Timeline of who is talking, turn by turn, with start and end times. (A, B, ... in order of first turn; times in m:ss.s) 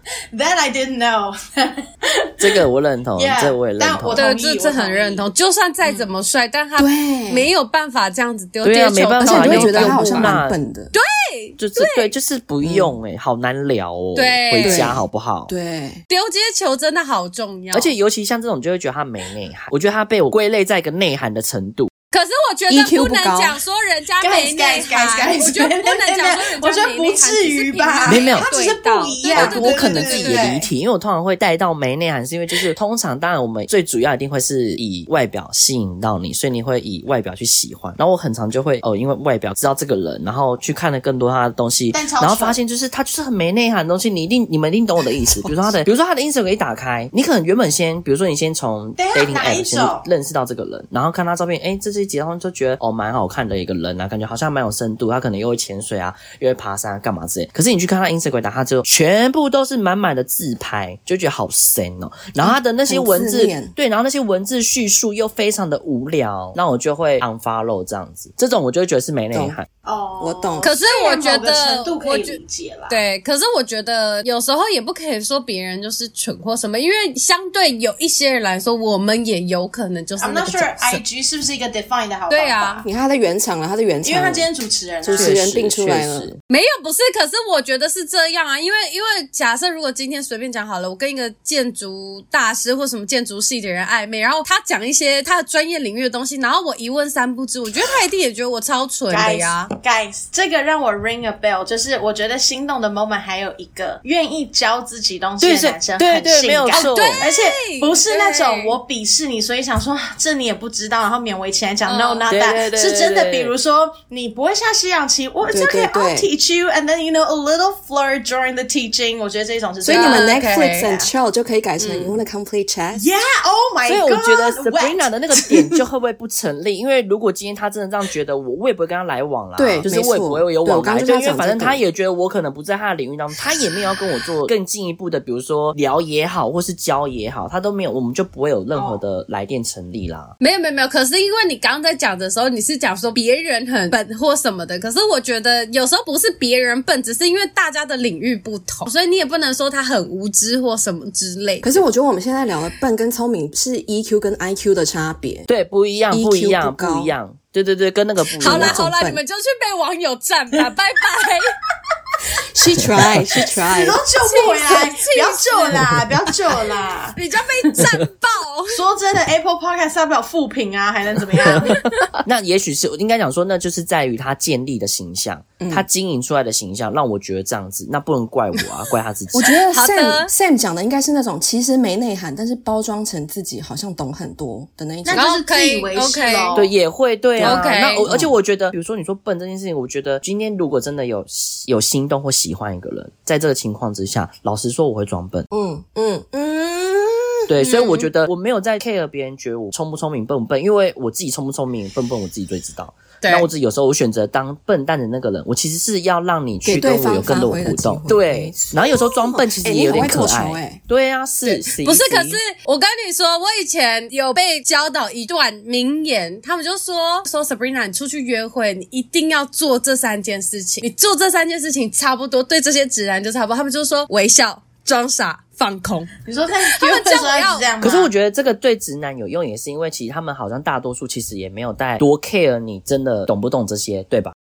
0:00.3-0:02.6 A
0:02.4-0:04.2 B
0:03.2-0:05.2 A
0:04.1-0:10.4 C
0:06.8-0:07.5 D
0:08.6-0:10.6 B
0:09.2-0:10.9 D
0:10.9-0:12.1 C
0:11.6-0:15.5 B
0:12.6-0:12.9 D
0:14.2-0:14.9 C
0:14.6-0:16.0 D
0:16.1-0:17.9 C
0:17.7-0:21.9 B
0:22.1-0:30.5 C
0:22.7-0:23.6 D
0:24.2-0:30.7 A
0:28.1-0:28.5 B
0:29.3-1:09.7 B
0:41.9-0:42.6 A
0:45.4-0:45.7 D
0:49.0-0:50.1 A
1:02.4-1:03.7 D
1:09.3-1:09.6 D
1:09.8-1:13.0 A
1:10.2-1:10.7 D
1:10.6-1:12.4 C
1:12.9-1:21.0 C
1:20.2-1:22.9 A
1:22.3-1:22.8 C
1:22.8-1:24.5 D
1:24.0-1:25.4 A
1:25.0-1:26.3 D
1:25.1-1:26.4 B
1:26.5-1:39.7 C
1:39.1-2:01.1 A
1:45.4-1:47.2 B
1:46.7-1:48.8 C
1:51.9-1:52.3 C
1:52.3-1:53.5 B
1:55.5-1:56.3 D
1:59.8-2:03.0 D
1:59.9-2:00.9 C
2:01.8-2:02.2 C
2:02.9-2:05.6 A
2:03.9-2:20.3 B
2:09.6-2:11.8 D
2:18.8-2:19.0 A
2:20.4-2:31.8 C
2:31.6-2:35.5 D
2:35.5-2:38.8 B
2:36.1-2:37.2 D
2:38.4-2:39.2 D
2:38.4-2:41.5 C
2:42.5-2:44.0 D
2:43.6-2:47.8 A
2:44.2-2:45.8 C
2:47.2-2:48.8 C
2:48.7-2:51.8 A
2:51.7-2:59.4 B
2:55.6-2:55.9 D
2:59.3-3:05.3 D
2:59.7-3:00.3 C
3:05.0-3:06.7 A
3:05.1-3:06.6 C
3:06.5-3:15.5 B
3:07.4-3:08.3 D
3:07.4-3:08.0 C
3:15.5-3:17.5 D
3:17.5-3:32.4 B
3:17.6-3:18.1 C
3:23.2-3:23.5 C
3:26.6-3:30.8 D
3:31.4-3:46.1 C
3:46.2-3:48.1 A
3:46.8-3:47.7 C
3:47.8-3:54.4 B